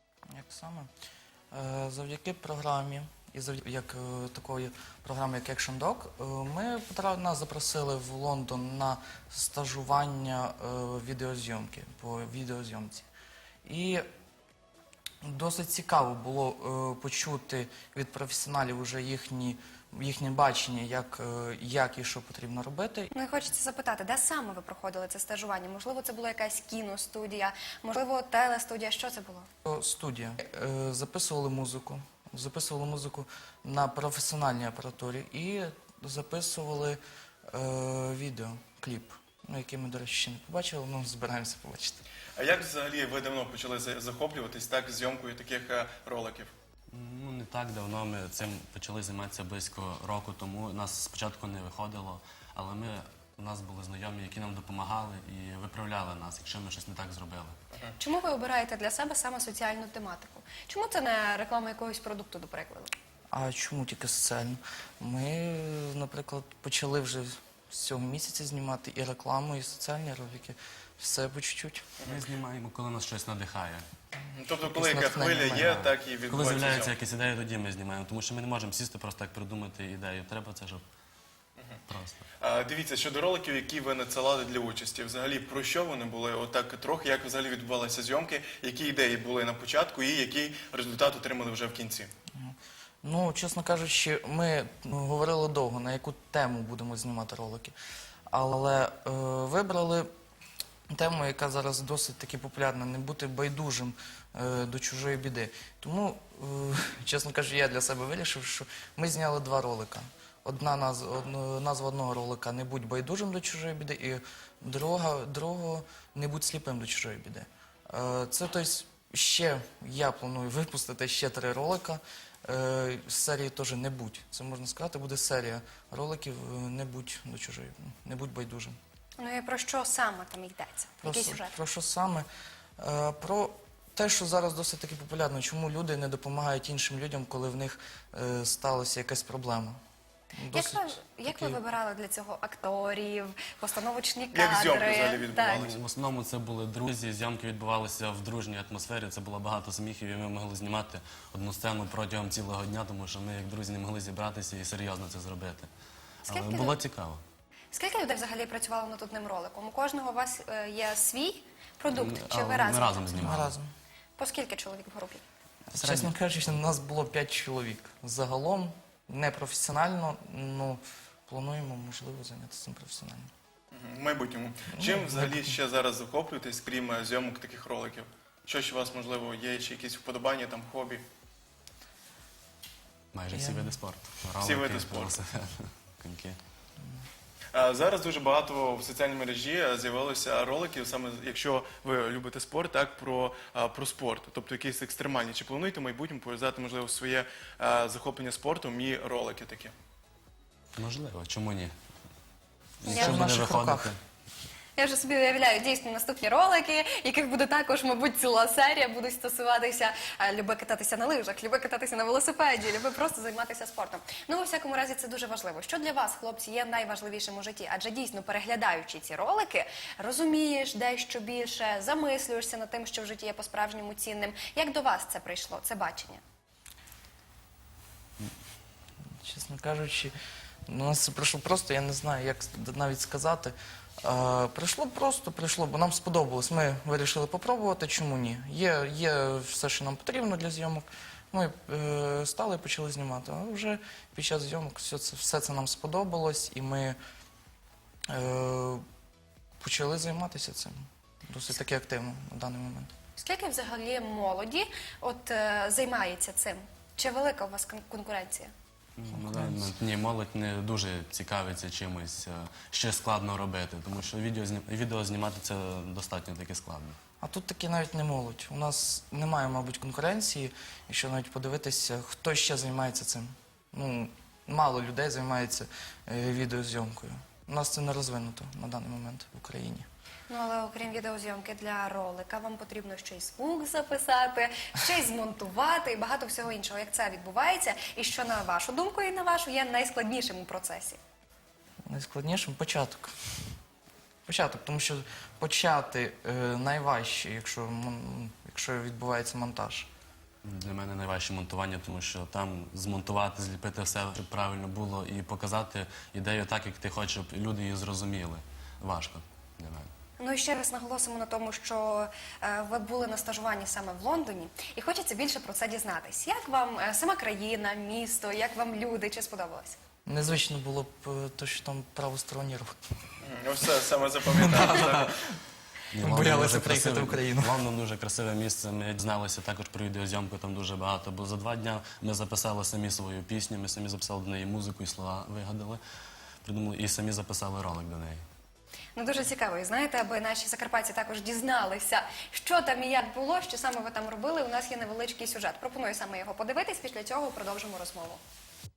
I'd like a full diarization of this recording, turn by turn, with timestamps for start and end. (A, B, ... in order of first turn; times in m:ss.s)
0:00.3-0:00.9 A
0:01.5-0:13.1 A
0:13.6-0:14.0 A
0:15.2-0:23.1 A
0:23.1-0:29.5 B
0:29.6-0:42.0 A
0:42.4-0:46.5 C
0:46.9-0:57.6 D
0:58.0-1:03.0 B
1:03.3-1:11.9 A
1:12.1-1:13.8 D
1:14.4-1:17.0 C
1:14.7-1:15.9 A
1:16.3-1:20.8 D
1:21.9-1:22.3 D
1:22.4-1:32.1 C
1:32.4-1:37.8 A
1:38.3-1:40.1 A
1:40.9-2:08.8 A
2:09.2-2:11.5 B
2:11.0-2:12.3 A
2:12.8-2:19.8 A
2:20.4-2:21.6 A
2:20.5-2:25.7 B
2:24.3-2:25.8 C
2:25.6-2:35.7 D
2:36.3-2:36.8 B
2:36.3-2:37.2 D
2:37.7-2:43.1 B
2:41.9-2:43.5 D
2:43.1-2:43.7 A
2:44.2-2:45.2 B
2:45.7-2:53.3 A
2:45.8-2:46.1 D
2:53.7-3:01.0 C
2:54.8-2:55.5 A
3:03.1-3:06.4 D
3:03.3-3:03.7 A
3:04.4-3:05.2 C
3:07.5-3:19.7 C
3:20.8-3:21.7 D
3:22.8-3:24.0 D
3:22.8-3:23.9 A
3:24.8-3:46.2 B
3:49.2-3:50.1 A
3:50.7-4:07.0 A
4:08.1-4:08.8 A
4:09.6-4:12.9 A
4:13.2-4:18.5 B
4:19.0-4:27.0 D
4:19.3-4:19.7 A
4:27.2-4:39.9 A
4:40.3-4:51.0 B
4:51.9-4:53.1 A
4:54.3-4:59.9 A
5:00.4-5:09.9 D
5:10.2-5:19.8 B
5:20.1-5:22.8 A
5:23.2-5:25.2 C
5:24.3-5:25.3 A
5:25.9-5:35.8 D
5:26.0-5:27.6 A
5:36.4-5:38.2 D
5:39.0-5:48.2 B